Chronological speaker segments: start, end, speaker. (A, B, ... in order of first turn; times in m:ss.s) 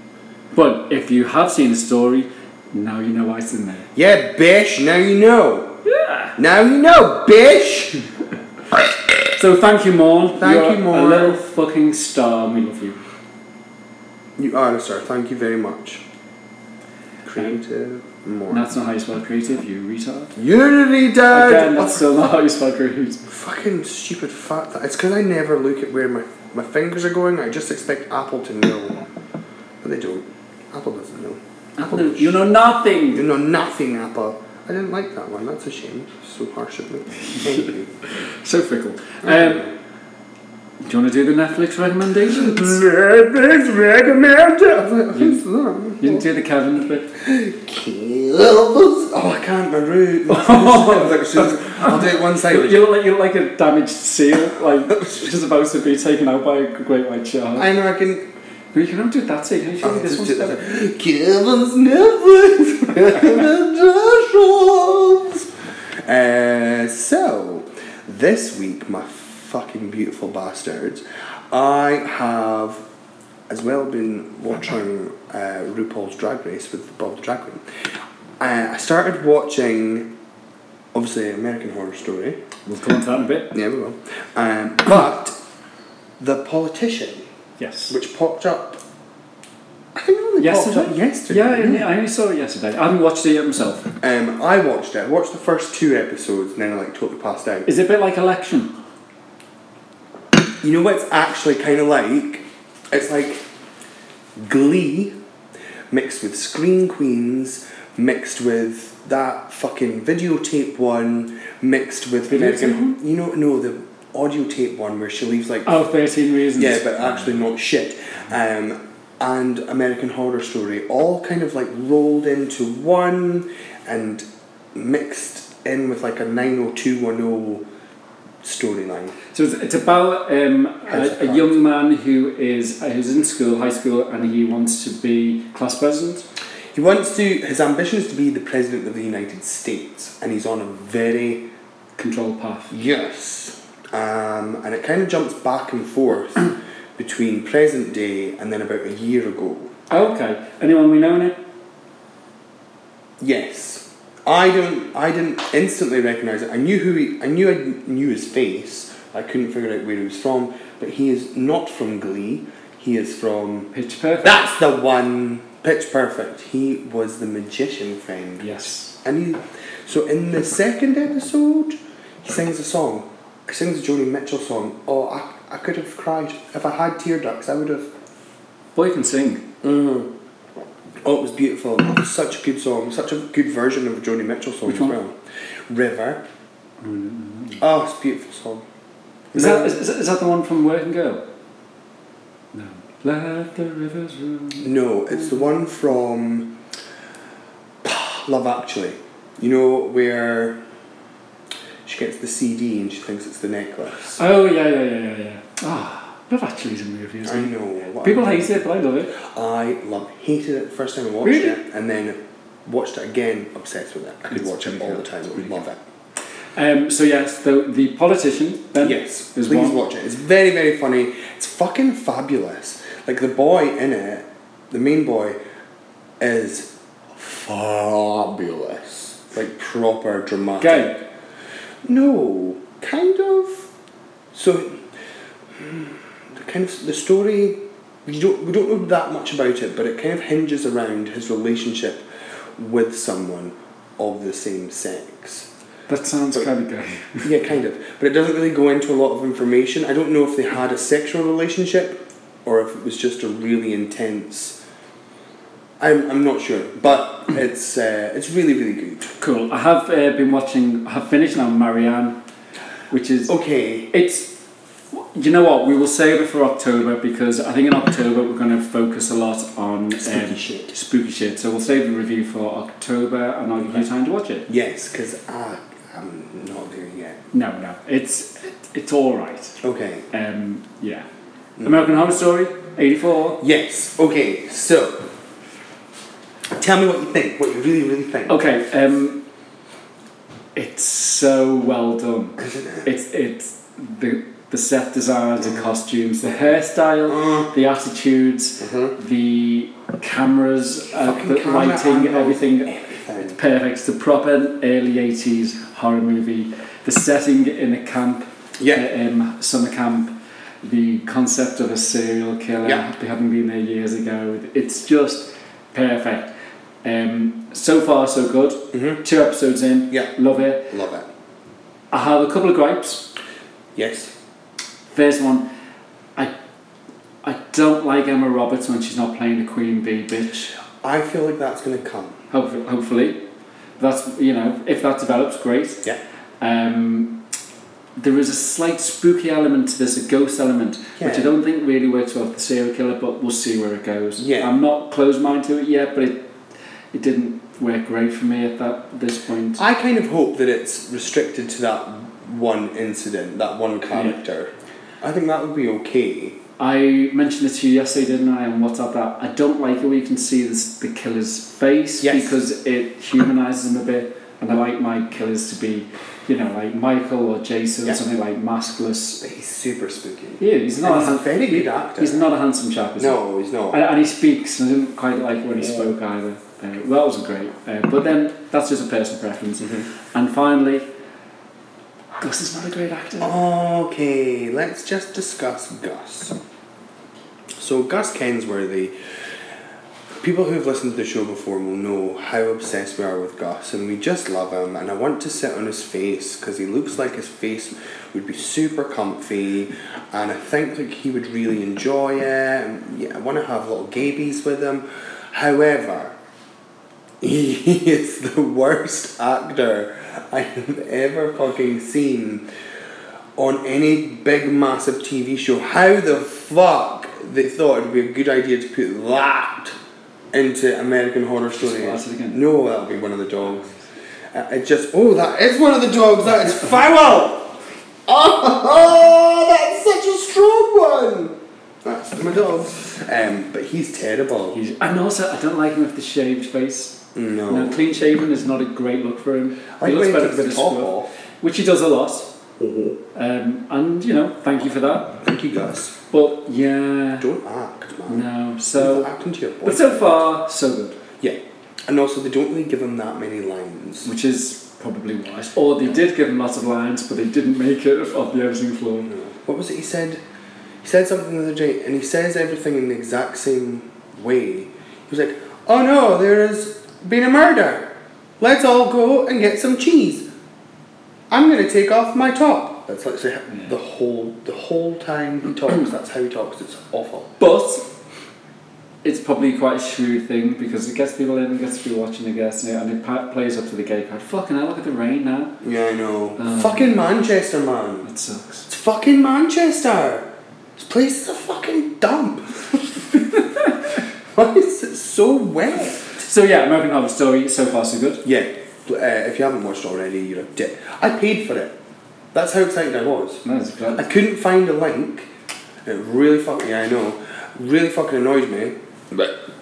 0:00.5-0:03.9 A
0:04.0-0:05.8 B
0:05.8-0:06.4 A
0:06.4-0:08.0 B
0:09.4-0:13.0 A
0:10.4-0:11.4 B
0:14.4-0:16.0 B
0:17.2-0:18.6 B
0:18.5-0:20.3 A
0:20.4-0:22.1 B
0:21.3-0:23.3 A
0:23.3-0:29.0 B
0:29.8-0:32.5 B
0:31.8-0:33.3 A
0:33.1-0:37.9 B
0:37.3-0:39.7 A
0:39.2-0:39.7 B
0:40.8-0:42.8 A
0:42.2-0:46.2 B
0:45.1-0:45.4 A
0:46.0-0:47.1 A
0:47.2-0:52.9 B
0:50.3-0:57.7 A
0:57.6-0:58.3 B
0:58.7-1:00.6 A
0:59.8-1:12.8 B
1:13.5-1:17.6 B
1:18.4-1:20.1 B
1:20.9-1:22.4 B
1:22.7-1:23.5 A
1:23.5-1:25.4 B
1:26.2-1:27.3 B
1:27.6-1:28.0 A
1:27.9-1:28.8 B
1:29.9-1:31.9 B
1:30.4-1:33.9 A
1:34.0-1:37.7 B
1:37.7-1:38.7 A
1:40.6-1:43.4 B
1:44.4-1:45.2 B
1:45.9-1:55.8 B
1:52.3-1:53.0 A
1:55.6-1:57.4 A
1:56.6-2:07.6 B
2:08.4-2:09.2 B
2:09.3-2:16.3 A
2:10.9-2:11.6 B
2:16.7-2:21.5 B
2:22.0-2:22.7 A
2:22.7-2:29.7 B
2:29.9-2:31.4 A
2:33.2-2:43.7 B
2:43.7-2:44.4 A
2:44.2-2:57.9 B
2:48.4-2:49.0 A
2:58.8-2:59.4 A
2:59.6-3:00.1 B
3:01.0-3:06.2 B
3:04.7-3:05.0 A
3:06.8-3:07.6 A
3:07.6-3:08.7 B
3:09.3-3:09.8 B
3:09.3-3:11.2 A
3:12.5-3:15.4 A
3:14.6-3:16.6 B
3:17.8-3:20.6 B
3:21.8-3:24.2 B
3:24.2-3:29.2 A
3:27.2-3:35.8 B
3:31.2-3:31.6 A
3:34.3-3:35.6 A
3:36.6-3:39.8 A
3:38.8-3:45.4 B
3:46.2-3:51.0 B
3:50.6-3:51.0 A
3:51.8-3:53.7 B
3:54.3-3:54.8 B
3:55.6-4:05.5 B
4:05.9-4:07.3 A
4:07.2-4:14.6 B
4:15.8-4:19.2 B
4:19.2-4:22.2 A
4:22.9-4:23.4 A
4:23.3-4:23.9 B
4:23.9-4:24.4 A
4:24.9-4:34.5 A
4:30.0-4:30.7 B
4:34.5-4:37.2 B
4:37.3-4:39.6 A
4:39.6-4:40.1 B
4:40.1-4:41.1 A
4:41.6-4:41.9 B
4:41.6-4:43.4 A
4:43.4-4:45.1 B
4:46.5-4:48.4 B
4:48.3-4:49.2 A
4:50.6-5:16.3 A
4:52.4-4:52.8 B
4:57.1-4:57.5 B
4:58.6-4:59.0 B
5:01.0-5:03.4 B
5:08.6-5:08.8 B
5:16.8-5:20.7 A
5:18.7-5:19.0 B
5:20.7-5:21.1 B
5:21.9-5:23.1 A
5:23.8-5:24.1 B
5:24.9-5:25.5 A
5:27.2-5:30.5 A
5:30.8-5:32.2 B
5:32.3-5:33.2 A
5:33.8-5:35.9 A
5:36.4-5:37.2 A
5:38.0-5:46.3 A
5:41.0-5:41.3 B
5:44.2-5:44.5 B
5:46.9-5:49.6 A
5:49.6-5:56.4 B
5:53.9-5:54.2 A
5:56.6-6:09.2 A
6:02.0-6:02.4 B
6:09.2-6:12.2 B
6:10.4-6:13.2 A
6:13.0-6:13.8 B
6:13.7-6:20.9 A
6:15.6-6:15.9 B
6:22.2-6:23.4 A
6:23.2-6:26.4 B
6:27.6-6:29.0 B
6:30.2-6:46.2 B
6:47.2-6:52.5 B
6:53.4-6:59.8 B
7:00.3-7:03.8 B
7:01.6-7:02.4 A
7:04.3-7:14.6 B
7:06.3-7:06.7 A
7:14.5-7:22.4 A
7:17.2-7:17.9 B
7:19.8-7:21.1 B
7:22.6-7:23.0 B
7:23.1-7:25.2 A
7:25.2-7:25.9 B
7:26.1-7:27.3 A
7:27.2-7:30.2 B
7:28.1-7:31.0 A
7:31.2-7:34.1 B
7:34.0-7:39.1 A
7:39.1-7:40.2 B
7:40.8-7:50.3 B
7:51.3-7:57.3 B
7:57.4-7:57.9 A
7:59.0-8:05.6 A
8:05.6-8:08.1 B
8:06.4-8:07.3 A
8:08.0-8:08.7 A
8:08.7-8:13.1 B
8:14.3-8:16.2 B
8:16.2-8:18.3 A
8:18.2-8:21.8 B
8:22.3-8:25.3 B
8:23.4-8:24.1 A
8:25.8-8:29.4 B